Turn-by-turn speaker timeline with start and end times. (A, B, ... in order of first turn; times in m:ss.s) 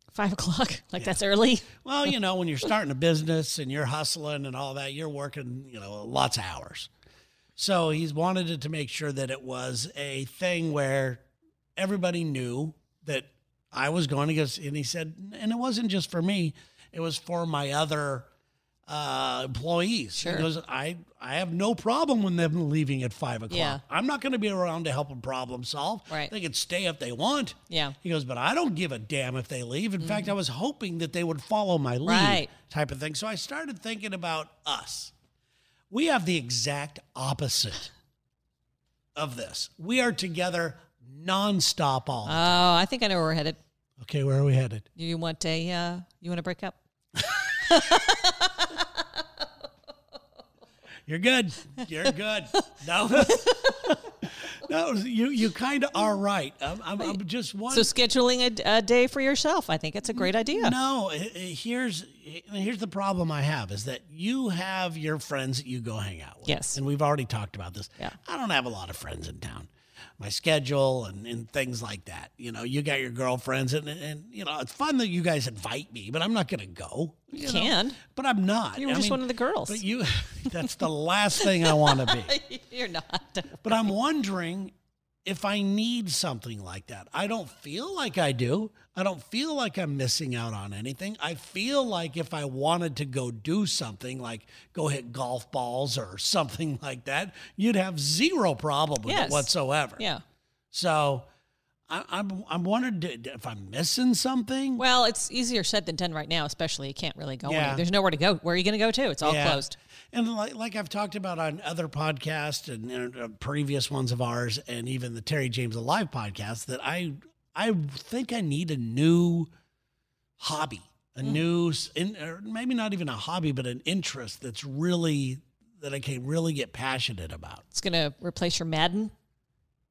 0:00.1-0:01.7 A
0:01.7-0:06.9 B
0:07.6-0:11.2 B
0:11.8-0:18.3 B
0:18.9-0:35.1 B
0:20.2-0:20.5 A
0:23.5-0:23.8 A
0:27.7-0:28.0 A
0:30.0-0:30.3 A
0:32.0-0:32.5 A
0:35.9-0:37.9 B
0:39.2-0:42.6 B
0:42.2-0:43.6 A
0:44.0-0:44.9 B
0:45.0-0:46.8 A
0:47.6-0:49.2 A
0:51.1-0:57.9 B
0:53.2-0:53.9 A
0:57.7-1:00.7 A
1:00.1-1:22.3 B
1:06.4-1:06.8 A
1:17.3-1:18.0 A
1:18.8-1:19.8 A
1:21.4-1:23.9 A
1:23.6-1:24.7 B
1:25.2-1:40.0 B
1:39.0-1:40.2 A
1:40.7-1:41.3 B
1:41.9-1:44.8 B
1:44.8-1:49.8 A
1:47.4-1:47.8 B
1:49.2-1:59.5 B
2:00.4-2:07.6 B
2:07.7-2:09.1 A